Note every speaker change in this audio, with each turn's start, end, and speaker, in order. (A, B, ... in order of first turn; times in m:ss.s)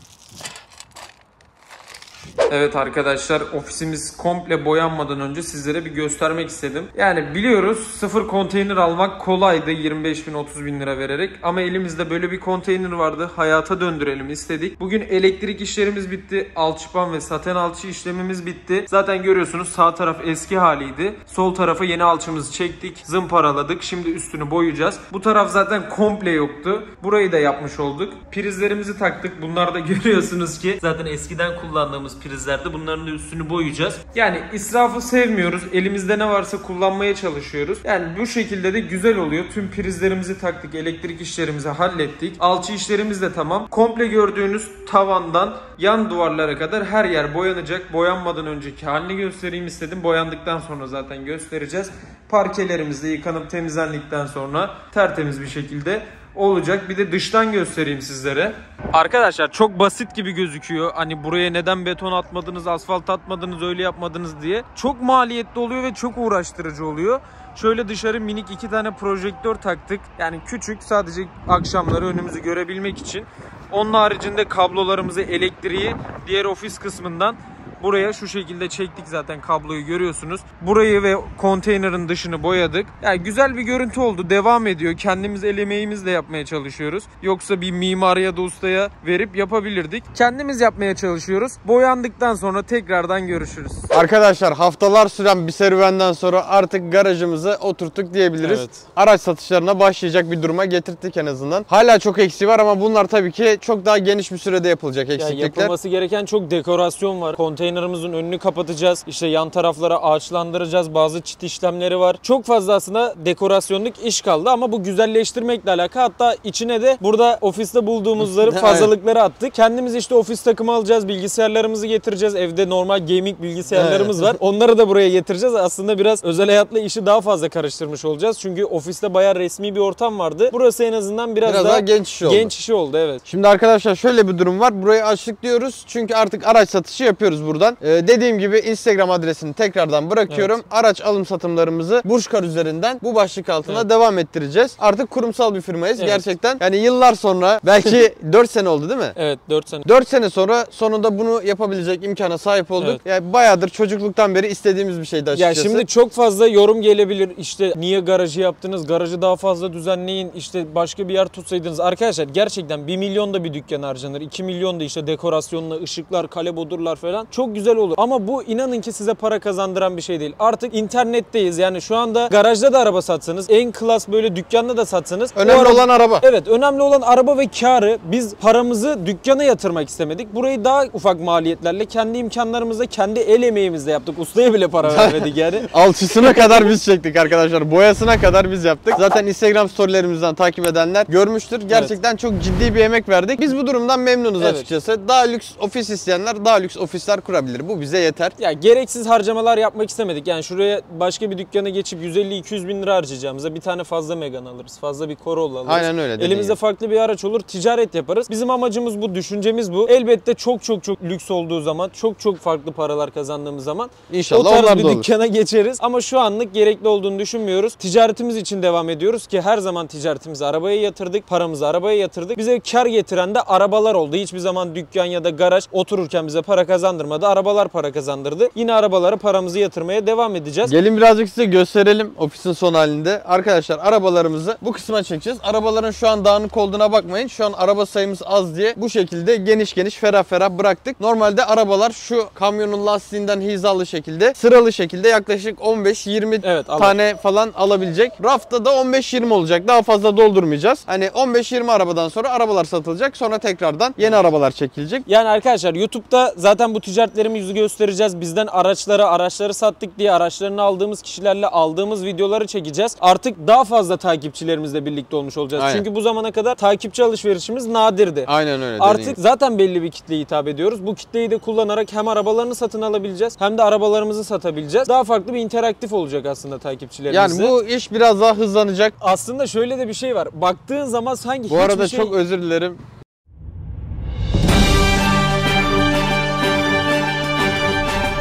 0:02.5-1:33.9 A
1:33.9-1:45.7 B
1:38.4-1:38.8 A
1:45.2-2:13.2 A
1:58.2-1:58.9 B
2:03.7-2:04.4 B
2:11.4-2:12.5 B
2:13.2-2:29.1 B
2:26.0-2:26.2 A
2:29.2-2:29.8 A
2:29.8-2:35.8 B
2:35.3-3:05.7 A
2:55.4-2:56.2 B
3:04.8-3:18.3 B
3:11.7-3:11.9 A
3:14.4-3:14.7 A
3:18.4-3:50.7 A
3:25.6-3:26.6 B
3:34.1-3:35.1 B
3:50.6-4:15.0 B
4:06.4-4:07.0 A
4:15.1-4:37.5 A
4:25.6-4:25.8 B
4:28.3-4:29.2 B
4:37.1-4:38.9 B
4:39.0-4:42.1 A
4:41.5-4:42.8 B